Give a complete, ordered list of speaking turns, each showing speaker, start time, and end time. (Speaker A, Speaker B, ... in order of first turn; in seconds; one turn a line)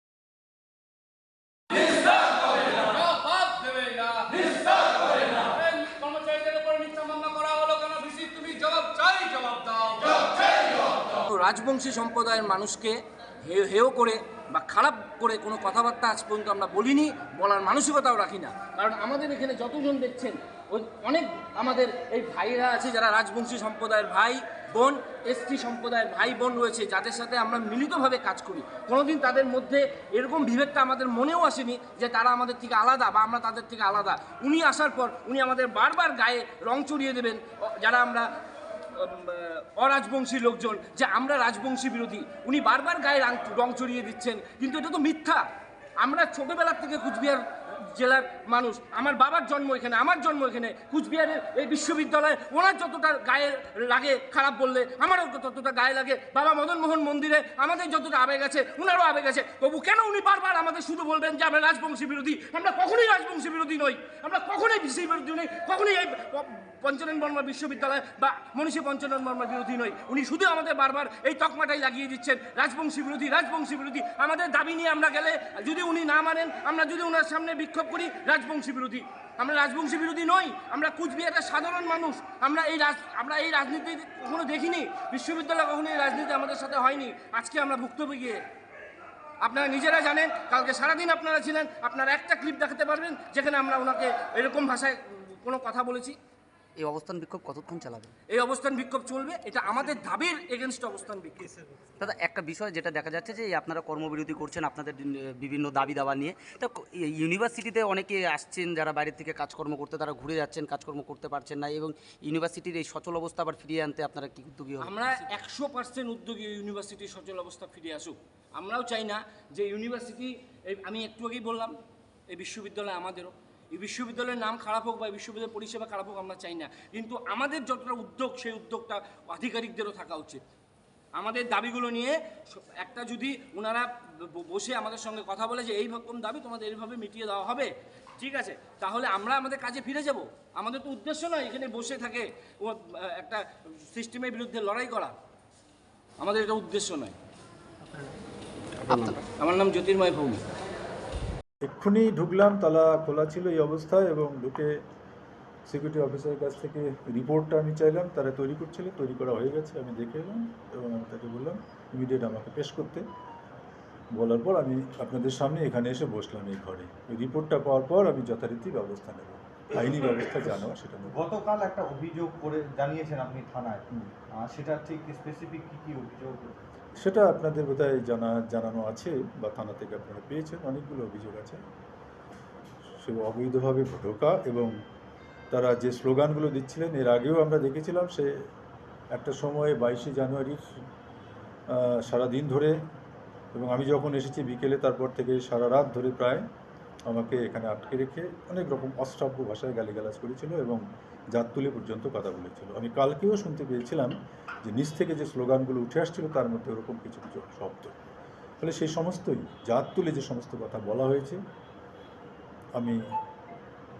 Speaker A: 1.9-38.3
Speaker A: 39.0-45.4
Speaker A: 46.0-88.4
Speaker A: 89.4-96.2
Speaker B: 96.8-98.1
Speaker A: 98.3-101.5
Speaker B: 102.0-115.2
Speaker A: 114.8-121.7
Speaker A: 122.3-130.4
Speaker A: 131.2-132.1
Speaker A: 132.8-145.1
Speaker A: 146.2-147.1
Speaker B: 148.9-149.2
Speaker A: 149.4-150.4
Speaker C: 151.6-154.7
Speaker C: 155.7-163.0
Speaker C: 164.1-171.2
Speaker D: 171.1-176.6
Speaker C: 177.0-181.6
Speaker C: 183.0-184.7
Speaker C: 185.5-188.3
Speaker C: 189.1-190.6
Speaker C: 191.7-192.8
Speaker C: 193.5-196.4
Speaker C: 197.1-200.8
Speaker C: 201.3-204.1
Speaker C: 204.6-207.9
Speaker C: 208.6-211.4